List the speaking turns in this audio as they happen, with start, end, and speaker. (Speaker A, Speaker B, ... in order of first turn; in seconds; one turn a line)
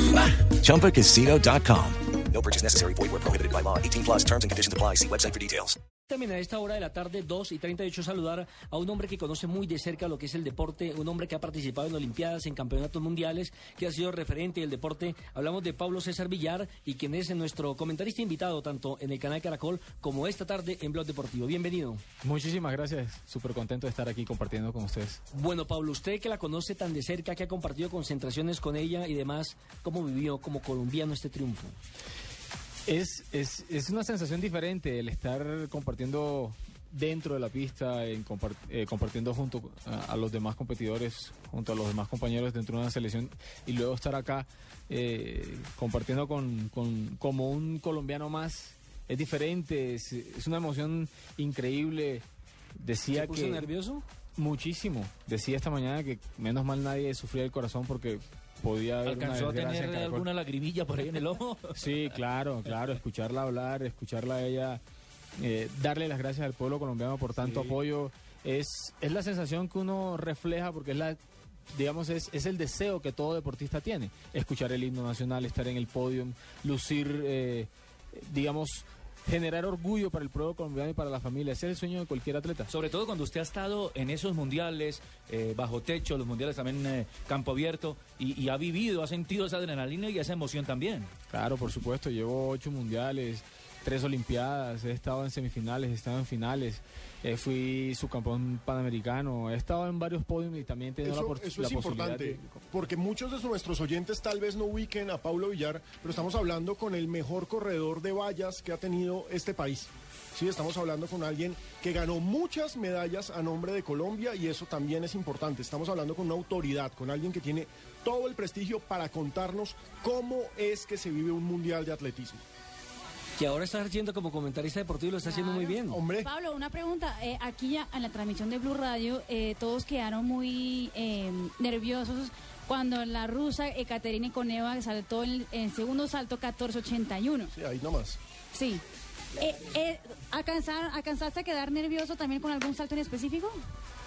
Speaker A: 0.4-5.8
Speaker B: 6.1-22.0
Speaker C: 22.2-25.2
Speaker B: 25.3-31.8
Speaker C: 32.9-52.2
Speaker C: 52.8-53.7
Speaker B: 53.1-54.0
Speaker C: 54.4-60.3
Speaker D: 59.0-61.8
Speaker C: 61.8-64.8
Speaker C: 65.4-71.2
Speaker D: 67.4-67.8
Speaker C: 71.7-82.7
Speaker D: 82.7-91.1
Speaker C: 91.3-102.6
Speaker E: 101.0-122.4
Speaker B: 123.4-126.0
Speaker F: 125.2-137.5
Speaker E: 125.9-126.3
Speaker E: 137.5-138.2
Speaker F: 138.5-138.8
Speaker F: 139.4-143.5